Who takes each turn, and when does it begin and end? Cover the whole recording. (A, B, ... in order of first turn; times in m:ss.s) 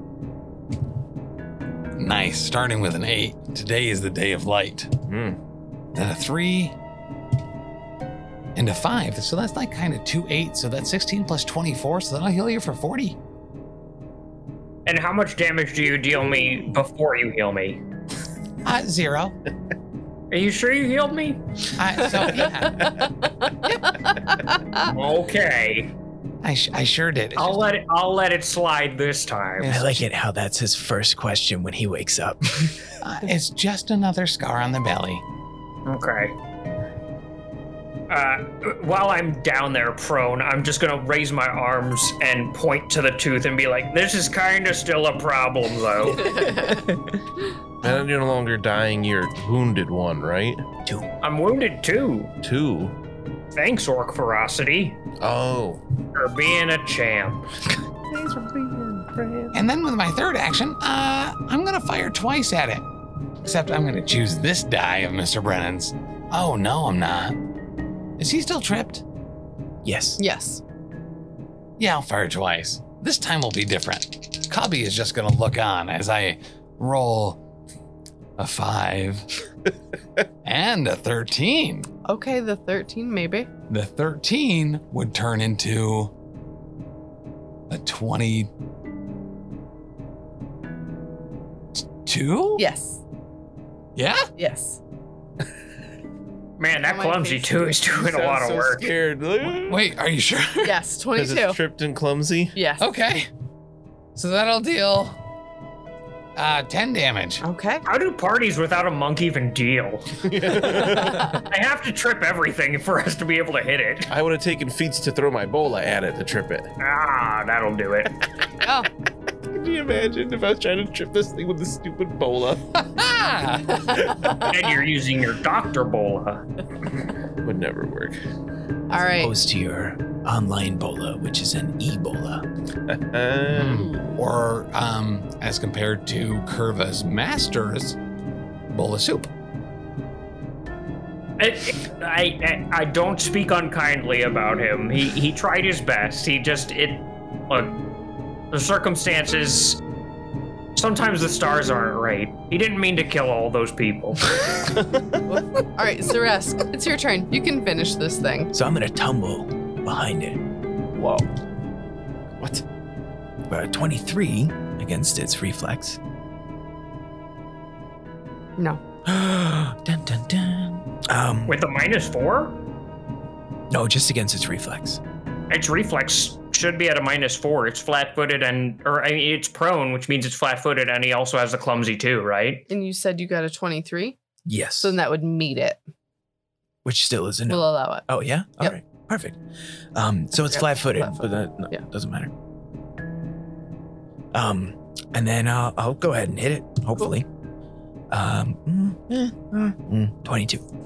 0:02.0-0:04.9 A
0:05.1-0:05.4 B
0:05.9-0:06.7 A
0:08.5-0:13.2 A
0:14.8-0:17.8 C
0:18.6-0:19.4 A
0:20.3-0:21.4 C
0:21.8-0:23.1 A
0:23.5-0:23.7 D
0:23.6-0:24.0 A
0:24.3-0:24.8 D
0:24.8-0:25.9 C
0:26.4-0:27.7 A
0:27.3-0:29.8 C
0:29.6-0:30.0 A
0:29.7-0:32.9 E
0:33.0-0:35.2 A
0:35.8-0:36.4 C
0:38.1-0:46.8 C
0:47.8-0:50.6 B
0:50.8-0:51.1 E
0:51.2-0:52.3 C
0:52.4-0:52.9 B
0:53.5-0:55.0 C
0:55.2-0:55.8 B
0:56.1-0:57.4 C
0:58.1-0:59.4 D
0:59.5-1:02.8 A
1:03.4-1:07.4 A
1:08.2-1:09.0 A
1:09.8-1:10.2 E
1:10.2-1:10.6 D
1:11.8-1:17.4 A
1:18.4-1:19.3 A
1:20.4-1:21.9 A
1:22.0-1:23.5 D
1:23.7-1:26.1 A
1:27.7-1:28.5 A
1:31.8-1:32.6 A
1:32.6-1:33.0 D
1:34.0-1:34.3 A
1:34.4-1:34.8 D
1:36.6-1:38.9 C
1:36.8-1:37.7 D
1:37.9-1:39.9 B
1:39.7-1:40.8 A
1:40.6-1:41.6 D
1:41.1-1:42.6 B
1:42.5-1:42.9 D
1:42.8-1:43.3 A
1:44.1-1:45.2 A
1:46.4-1:47.4 A
1:47.4-1:47.8 D
1:47.8-1:54.1 C
1:50.2-1:51.3 B
1:54.1-1:56.7 B
1:56.8-1:58.2 C
1:58.6-1:58.9 D
1:59.5-2:02.6 B
2:02.7-2:04.1 A
2:03.7-2:04.4 D
2:04.4-2:06.4 C
2:07.4-2:08.2 B
2:08.9-2:09.4 D
2:09.0-2:12.4 E
2:12.9-2:13.8 B
2:13.5-2:18.0 A
2:13.9-2:14.2 D
2:18.7-2:19.3 A
2:21.4-2:27.8 C
2:28.5-2:29.8 C
2:30.8-2:34.6 C
2:34.7-2:35.0 B
2:35.3-2:38.5 D
2:38.5-2:40.4 E
2:40.9-2:41.2 D
2:43.5-2:46.0 E
2:49.0-2:51.6 E
2:51.5-2:52.6 C
2:53.7-2:55.0 E
2:55.5-3:02.6 C
3:02.7-3:04.2 D
3:04.4-3:05.0 E
3:04.8-3:05.8 D
3:06.8-3:09.4 E
3:07.5-3:08.1 D
3:09.9-3:12.3 E
3:10.3-3:11.8 D
3:14.3-3:17.2 E
3:18.1-3:20.6 E